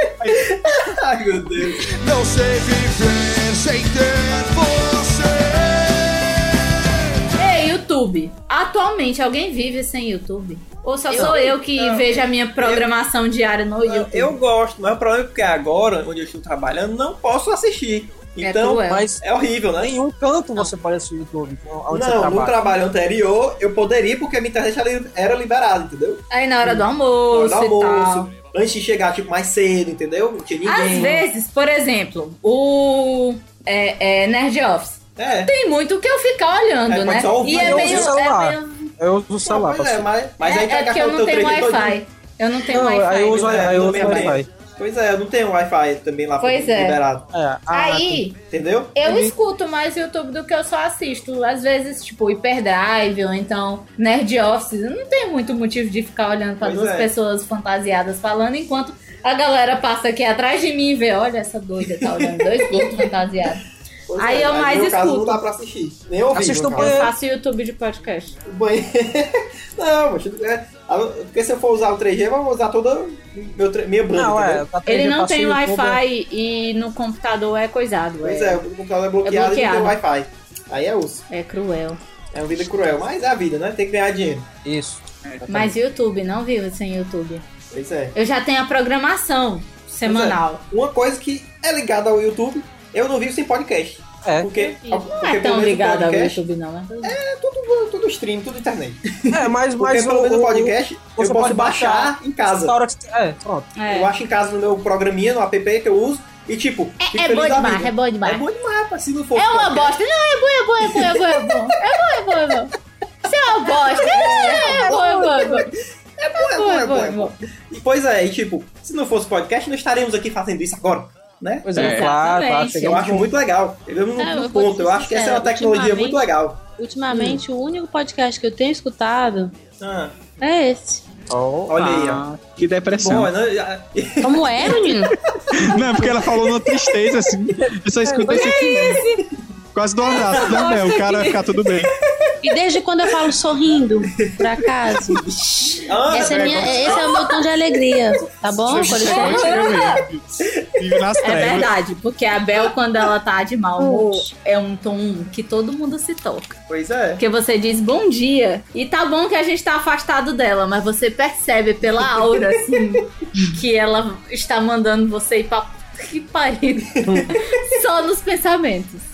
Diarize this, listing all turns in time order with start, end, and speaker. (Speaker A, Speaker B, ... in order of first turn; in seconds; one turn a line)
Speaker A: 0.2-0.5
Speaker B: 0.2-1.9
Speaker C: 1.8-7.3
Speaker D: 7.4-14.4
Speaker E: 11.1-11.5
Speaker B: 11.5-12.9
Speaker B: 13.8-19.9
Speaker D: 18.4-19.1
Speaker F: 18.9-19.2
Speaker F: 19.8-22.6
Speaker B: 21.9-26.2
Speaker D: 26.3-28.3
Speaker B: 27.3-31.2
Speaker D: 30.6-38.9
Speaker F: 30.9-31.2
Speaker B: 35.2-35.5
Speaker B: 36.9-38.2
Speaker F: 37.5-40.1
Speaker B: 39.4-42.0
Speaker D: 40.4-44.4
Speaker F: 42.7-44.5
Speaker B: 43.3-47.3
Speaker D: 46.4-47.0
Speaker F: 47.3-48.2
Speaker D: 47.7-48.4
Speaker B: 48.5-49.0
Speaker D: 49.0-63.6
Speaker F: 49.0-49.3
Speaker B: 56.6-57.1
Speaker B: 61.9-62.9
Speaker B: 64.1-67.1
Speaker D: 64.2-65.4
Speaker F: 66.3-67.1
Speaker D: 66.8-68.4
Speaker B: 68.5-74.7
Speaker F: 74.1-76.0
Speaker D: 74.9-78.6
Speaker B: 78.2-81.2
Speaker D: 79.2-80.0
Speaker D: 81.3-82.0
Speaker B: 82.3-84.5
Speaker F: 84.6-85.0
Speaker A: 85.3-85.7
Speaker D: 85.5-87.4
Speaker B: 87.7-88.1
Speaker D: 88.1-90.6
Speaker B: 90.0-96.4
Speaker F: 94.2-94.5
Speaker D: 94.5-97.2
Speaker B: 97.0-102.8
Speaker F: 99.3-103.7
Speaker D: 103.8-104.1
Speaker B: 103.9-110.0
Speaker D: 107.0-108.5
Speaker D: 109.4-112.7
Speaker B: 110.8-111.5
Speaker D: 113.2-115.7
Speaker B: 113.6-121.8
Speaker F: 114.1-115.5
Speaker D: 116.3-117.3
Speaker F: 121.6-123.3
Speaker A: 121.8-122.1
Speaker D: 121.8-123.0
Speaker B: 122.8-126.6
Speaker E: 124.2-126.2
Speaker E: 126.8-129.5
Speaker F: 127.1-127.4
Speaker B: 129.8-130.2
Speaker E: 130.4-131.0
Speaker F: 131.3-132.1
Speaker B: 131.7-132.3
Speaker A: 131.8-133.3
Speaker B: 132.9-136.3
Speaker E: 134.2-135.1
Speaker A: 135.5-139.0
Speaker E: 138.2-139.0
Speaker D: 138.3-139.2
Speaker A: 139.7-141.9
Speaker B: 140.2-140.6
Speaker D: 140.4-141.5
Speaker E: 142.4-149.8
Speaker B: 143.1-143.3
Speaker B: 144.2-147.4
Speaker A: 146.1-147.1
Speaker A: 148.6-151.7
Speaker D: 148.8-150.0
Speaker B: 150.4-151.0
Speaker D: 151.2-156.6
Speaker E: 153.8-154.3
Speaker B: 156.7-157.2
Speaker D: 157.2-169.0
Speaker B: 162.0-162.6
Speaker B: 166.9-167.4